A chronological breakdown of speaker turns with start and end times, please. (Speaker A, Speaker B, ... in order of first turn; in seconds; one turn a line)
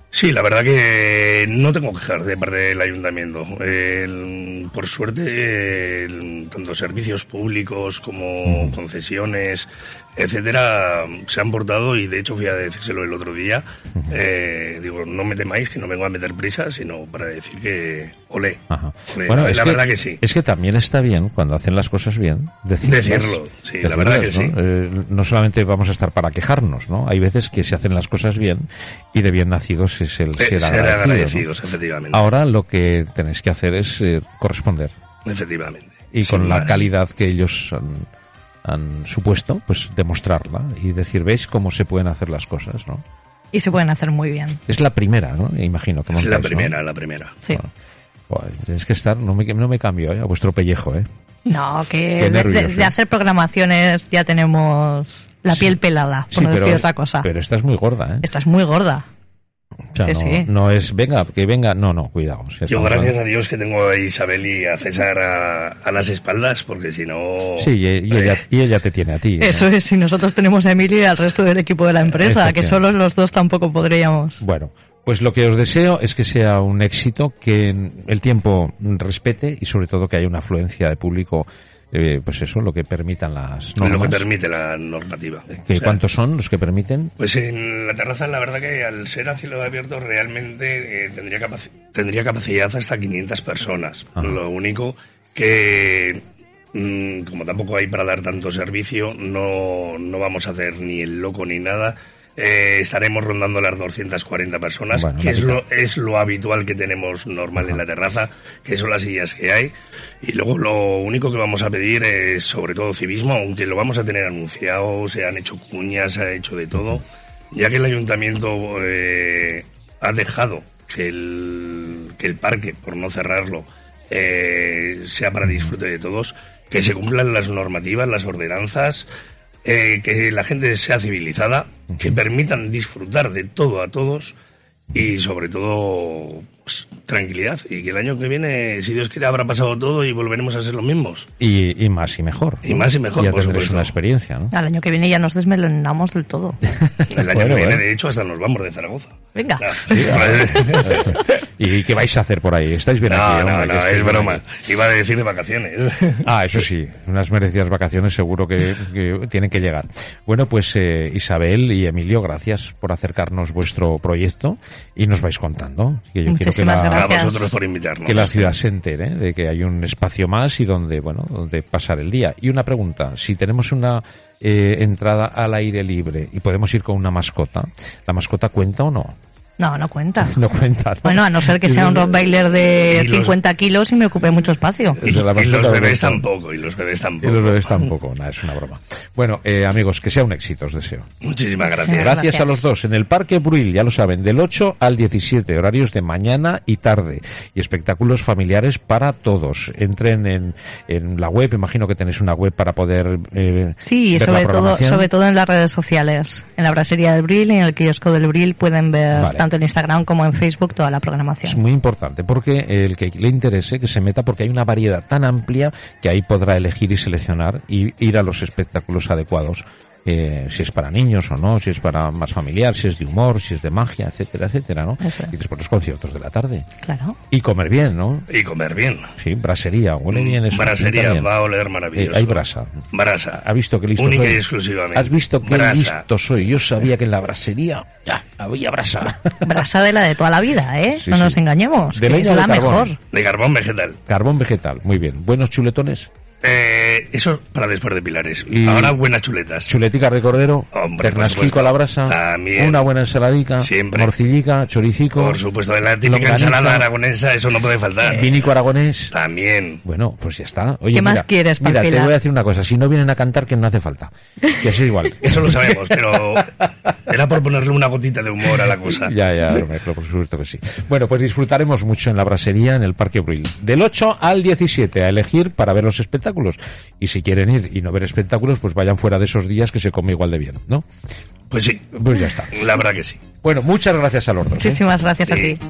Speaker A: 0.1-18.6
Speaker B: 8.5-8.8
Speaker B: 18.7-31.4
Speaker A: 19.1-20.2
Speaker A: 22.8-24.6
Speaker A: 30.4-32.2
Speaker B: 32.1-34.9
Speaker A: 35.2-36.9
Speaker B: 36.1-38.1
Speaker B: 38.6-43.0
Speaker C: 43.5-44.6
Speaker B: 44.7-46.8
Speaker A: 46.1-47.4
Speaker B: 48.3-51.1
Speaker C: 51.5-57.3
Speaker B: 52.2-53.0
Speaker B: 55.5-55.8
Speaker B: 56.3-58.3
Speaker C: 58.2-59.1
Speaker B: 59.9-63.2
Speaker C: 60.0-60.5
Speaker A: 62.7-68.4
Speaker B: 67.6-69.7
Speaker C: 69.4-74.4
Speaker B: 72.0-72.8
Speaker B: 74.4-84.2
Speaker A: 83.8-86.0
Speaker B: 85.6-87.1
Speaker A: 87.2-96.2
Speaker A: 96.7-129.1
Speaker B: 104.9-105.6
Speaker A: 129.7-134.4
Speaker A: 134.9-141.3
Speaker B: 141.4-144.5
Speaker A: 142.6-143.9
Speaker C: 144.5-146.6
Speaker A: 147.1-151.3
Speaker B: 147.2-147.8
Speaker C: 149.3-150.3
Speaker B: 149.9-154.4
Speaker A: 153.1-156.3
Speaker B: 156.2-167.2
Speaker C: 166.3-167.5
Speaker A: 166.9-168.4
Speaker B: 168.1-179.2
Speaker C: 179.6-180.4
Speaker B: 180.2-182.2
Speaker C: 181.1-185.0
Speaker A: 182.9-183.4
Speaker B: 185.0-186.3
Speaker A: 185.0-187.9
Speaker B: 187.2-191.1
Speaker A: 191.2-192.1
Speaker C: 191.7-192.6
Speaker B: 191.9-205.1
Speaker C: 203.8-211.6
Speaker B: 209.1-209.5
Speaker B: 211.4-226.7
Speaker C: 225.0-225.3
Speaker C: 226.8-227.2
Speaker B: 227.3-228.3
Speaker A: 228.3-229.1
Speaker B: 229.2-231.3
Speaker A: 230.1-233.4
Speaker B: 231.9-232.8
Speaker B: 233.3-234.4
Speaker A: 234.0-236.0
Speaker B: 234.9-239.7
Speaker C: 239.4-243.0
Speaker B: 240.9-241.4
Speaker B: 241.9-242.9
Speaker A: 243.1-244.0
Speaker B: 244.1-246.1
Speaker A: 246.4-249.7
Speaker B: 248.5-249.0
Speaker B: 249.7-255.4
Speaker A: 250.7-252.9
Speaker A: 253.6-254.1
Speaker A: 255.2-258.4
Speaker B: 256.0-256.9
Speaker B: 258.1-259.1
Speaker A: 259.1-259.8
Speaker B: 259.9-266.1
Speaker C: 260.9-262.1
Speaker A: 265.2-266.5
Speaker A: 267.1-269.1
Speaker B: 268.9-280.9
Speaker A: 281.5-281.9
Speaker B: 281.9-282.6
Speaker A: 282.5-283.2
Speaker B: 283.4-284.9
Speaker C: 284.6-285.6
Speaker A: 285.3-285.6